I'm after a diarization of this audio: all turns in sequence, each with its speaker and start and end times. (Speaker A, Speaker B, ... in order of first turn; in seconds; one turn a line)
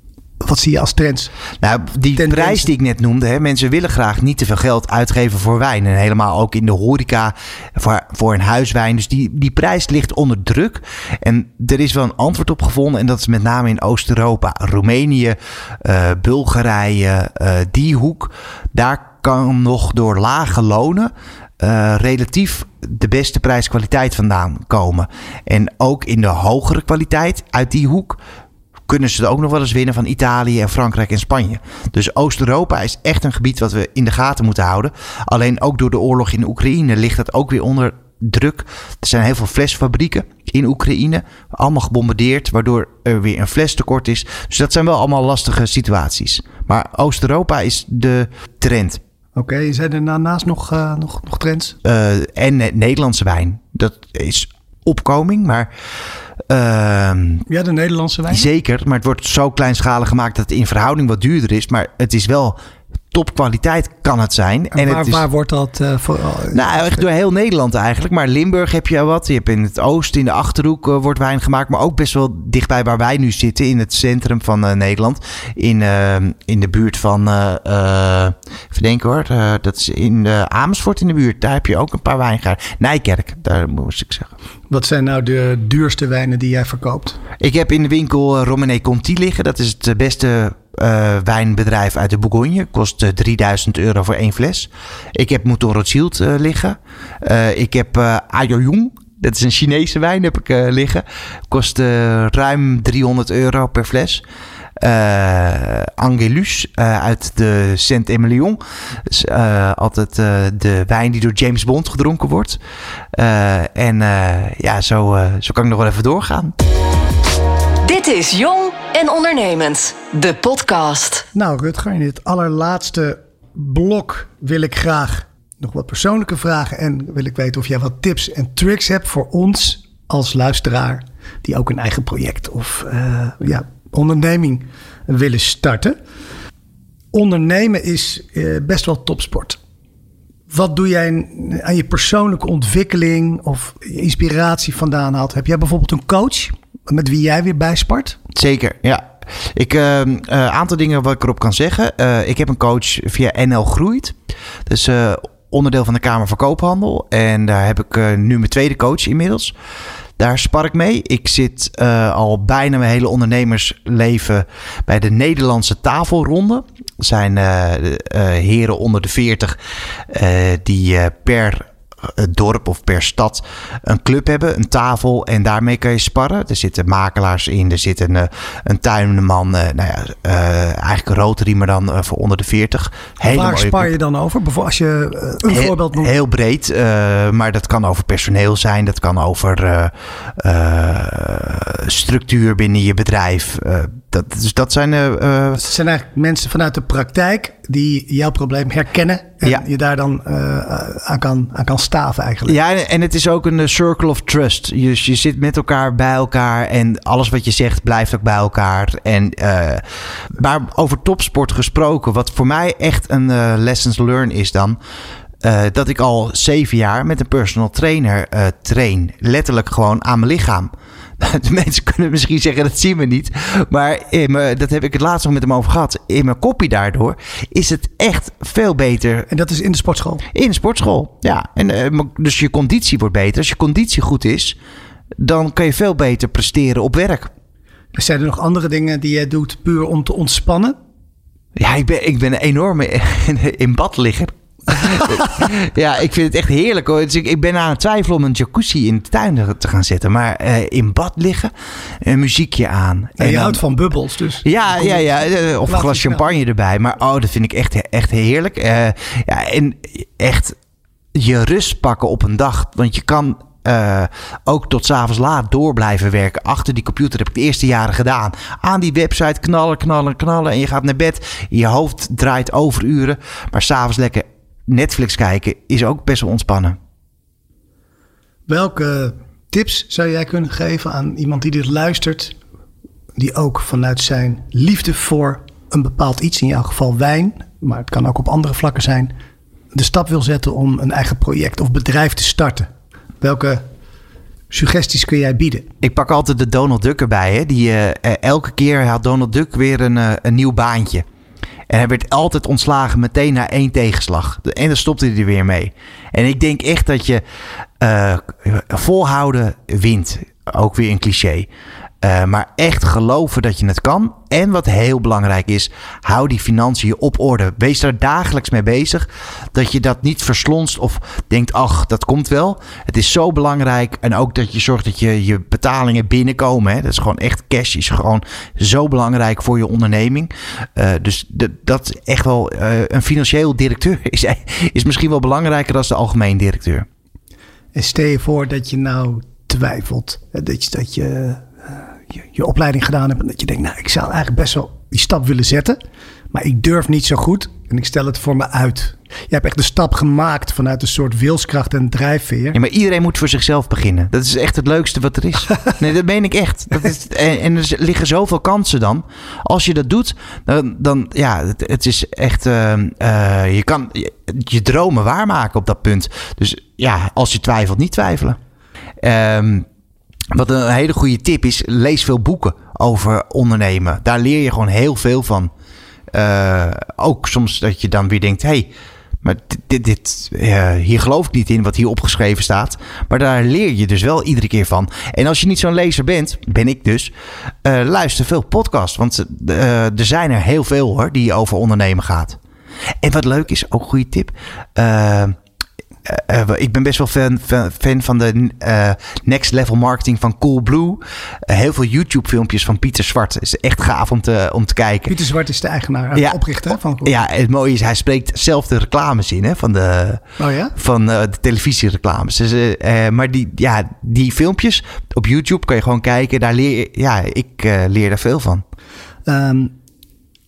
Speaker A: 0.4-1.3
Speaker B: 1.6-28.2
Speaker A: 2.1-2.7
Speaker B: 28.9-49.0
Speaker A: 49.3-51.8
Speaker B: 51.8-55.7
Speaker B: 56.5-57.5
Speaker A: 57.5-58.5
Speaker B: 58.3-62.6
Speaker B: 63.1-65.2
Speaker A: 64.7-67.0
Speaker B: 66.5-84.3
Speaker A: 84.7-87.2
Speaker B: 87.4-104.2
Speaker B: 104.8-112.6
Speaker B: 113.1-116.5
Speaker C: 117.8-121.2
Speaker A: 121.3-135.9
Speaker A: 137.1-139.6
Speaker A: 140.5-148.2
Speaker B: 148.3-154.1
Speaker B: 154.7-159.5
Speaker B: 160.2-169.6
Speaker B: 170.1-183.9
Speaker A: 183.2-186.1
Speaker B: 185.4-195.6
Speaker A: 195.6-202.6
Speaker B: 202.4-209.8
Speaker B: 210.3-214.8
Speaker B: 215.4-229.3
Speaker A: 229.3-230.2
Speaker B: 230.3-234.6
Speaker B: 235.2-237.3
Speaker A: 237.9-240.8
Speaker B: 241.6-253.6
Speaker A: 244.9-245.3
Speaker A: 253.2-255.1
Speaker B: 254.4-260.6
Speaker A: 255.6-256.3
Speaker B: 261.1-276.8
Speaker A: 278.5-282.4
Speaker A: 283.1-289.1
Speaker A: 289.7-292.7
Speaker A: 293.2-293.6
Speaker A: 294.5-295.7
Speaker B: 295.8-301.0
Speaker B: 301.7-307.2
Speaker B: 307.8-311.5
Speaker B: 312.0-336.9
Speaker A: 337.7-345.8
Speaker A: 346.3-352.6
Speaker B: 352.5-368.4
Speaker B: 369.0-369.7
Speaker B: 370.3-375.5
Speaker B: 376.1-378.7
Speaker B: 379.2-387.1
Speaker B: 387.6-392.4
Speaker B: 393.0-395.4
Speaker B: 396.0-405.1
Speaker A: 405.1-407.1
Speaker B: 406.1-406.4
Speaker B: 407.0-410.2
Speaker A: 410.4-410.7
Speaker B: 410.8-418.6
Speaker A: 419.2-419.7